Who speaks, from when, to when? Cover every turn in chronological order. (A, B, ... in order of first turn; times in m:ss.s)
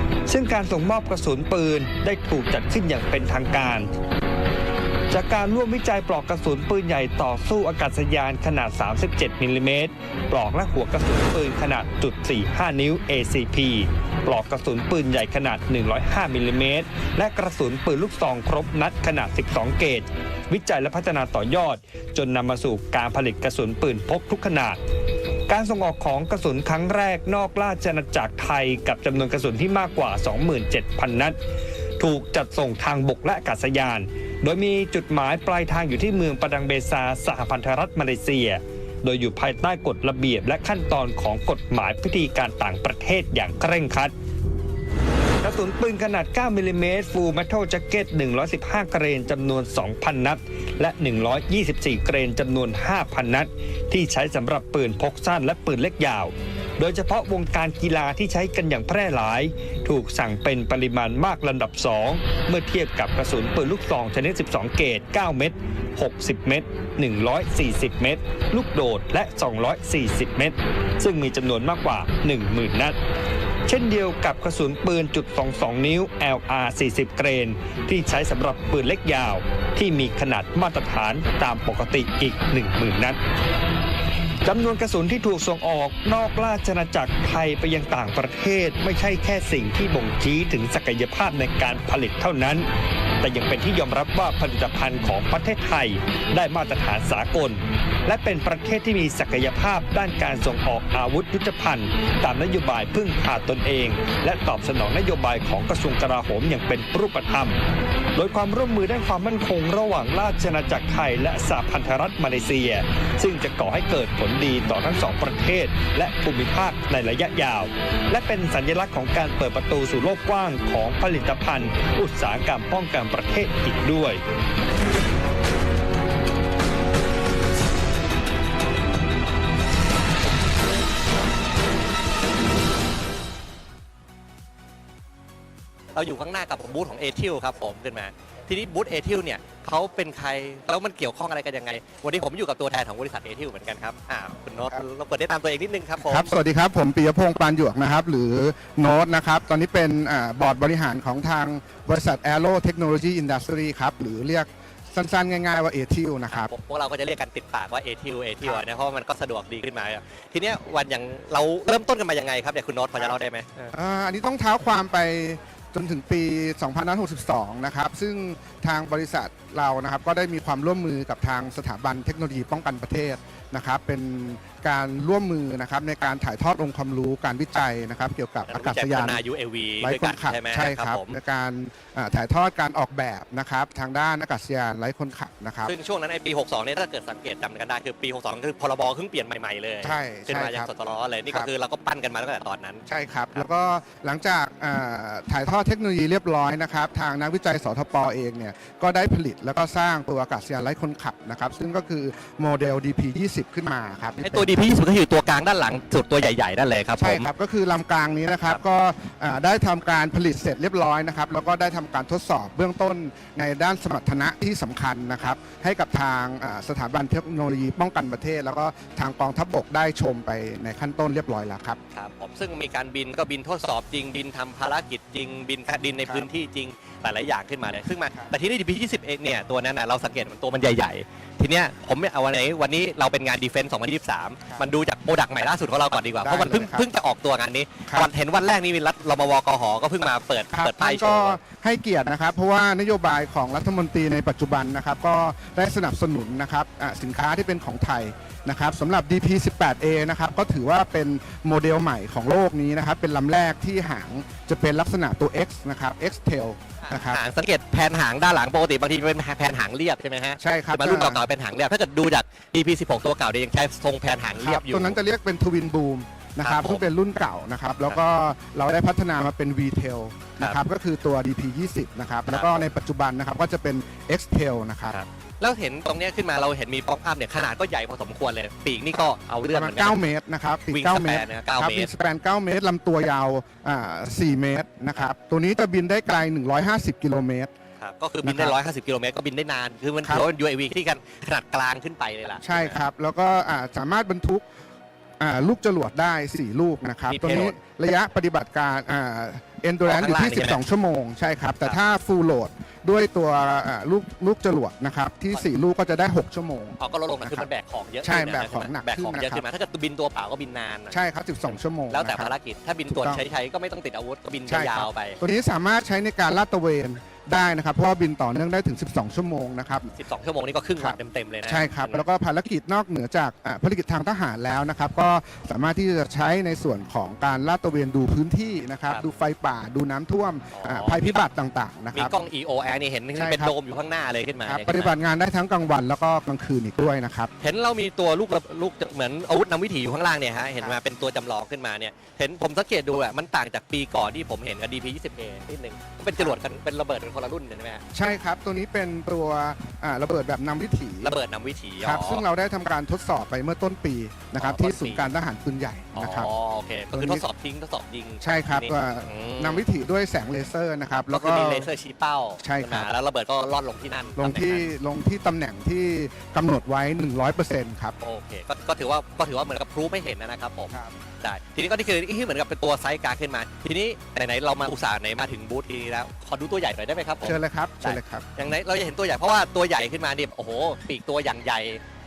0:00.3-0:03.9 A
0:05.1-0:24.8 A
0:25.5-0:31.4 A
0:32.0-0:44.1 A
0:45.4-1:13.0 A
1:13.6-1:23.2 A
1:24.4-1:32.6 A
1:33.2-1:47.6 A
1:48.2-2:04.2 A
2:15.9-2:26.3 B
2:26.0-2:36.5 C
2:36.3-2:43.7 B
2:43.7-2:59.2 C
2:58.4-3:01.2 B
2:59.8-3:05.7 C
3:05.6-3:13.4 B
3:09.8-3:10.7 C
3:12.8-3:24.6 C
3:24.2-3:27.3 B
3:27.0-3:41.8 C
3:41.9-4:01.4 B
3:46.0-3:46.3 C
3:56.2-3:56.9 C
4:00.5-4:17.2 C
4:16.8-4:25.0 B
4:20.4-4:21.3 C
4:24.4-4:35.0 C
4:26.4-4:26.8 B
4:32.3-4:32.7 B
4:34.9-4:40.0 B
4:39.5-4:47.5 C
4:40.7-4:41.9 B
4:47.8-4:52.8 B
4:48.2-4:48.6 C
4:52.4-4:54.5 C
4:55.2-5:07.5 C
4:57.1-4:57.6 B
4:59.8-5:00.6 B
5:06.8-5:15.2 B
5:08.0-5:09.5 C
5:10.9-5:12.3 C
5:12.9-5:13.2 C
5:14.5-5:19.9 C
5:19.9-5:22.0 B
5:20.8-5:32.2 C
5:30.5-5:31.2 B
5:31.9-5:34.9 B
5:33.1-5:33.5 C
5:34.4-5:37.3 C
5:37.4-5:47.8 B
5:46.1-5:46.4 C
5:47.9-5:51.2 C
5:51.0-5:52.2 B
5:51.8-5:56.3 C
5:54.3-5:55.1 B
5:55.9-5:59.7 B
5:56.9-5:57.2 C
5:58.2-6:01.7 C
6:01.1-6:04.7 B
6:02.4-6:02.9 C
6:04.2-6:08.0 C
6:08.0-6:21.8 B
6:10.7-6:11.0 C
6:17.2-6:18.2 C